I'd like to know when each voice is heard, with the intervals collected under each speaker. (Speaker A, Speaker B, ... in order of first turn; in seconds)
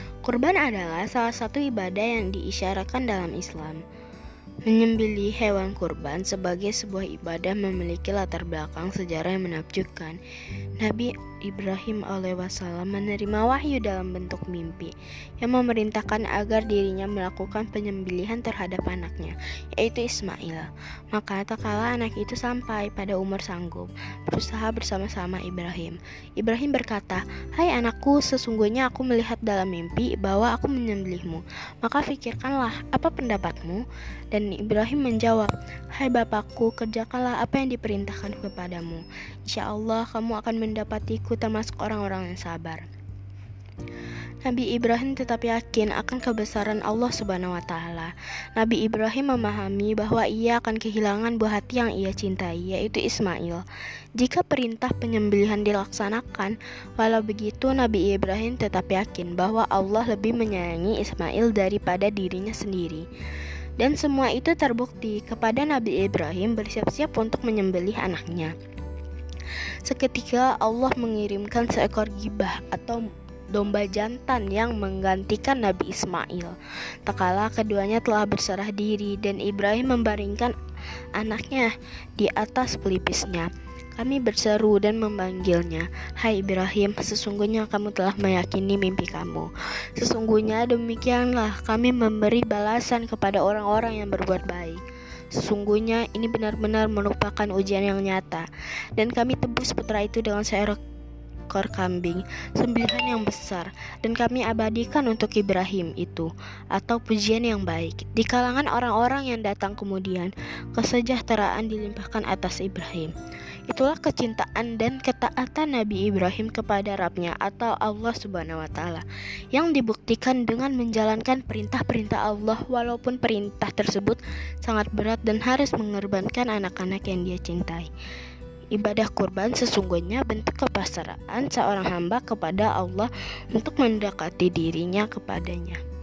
Speaker A: 0.2-3.8, 4.7-10.2, 10.8-42.9, 44.4-53.6, 54.2-63.1, 63.8-68.5, 69.8-80.5, 81.2-94.8, 95.3-100.8, 101.5-113.1, 113.7-127.9, 128.7-135.8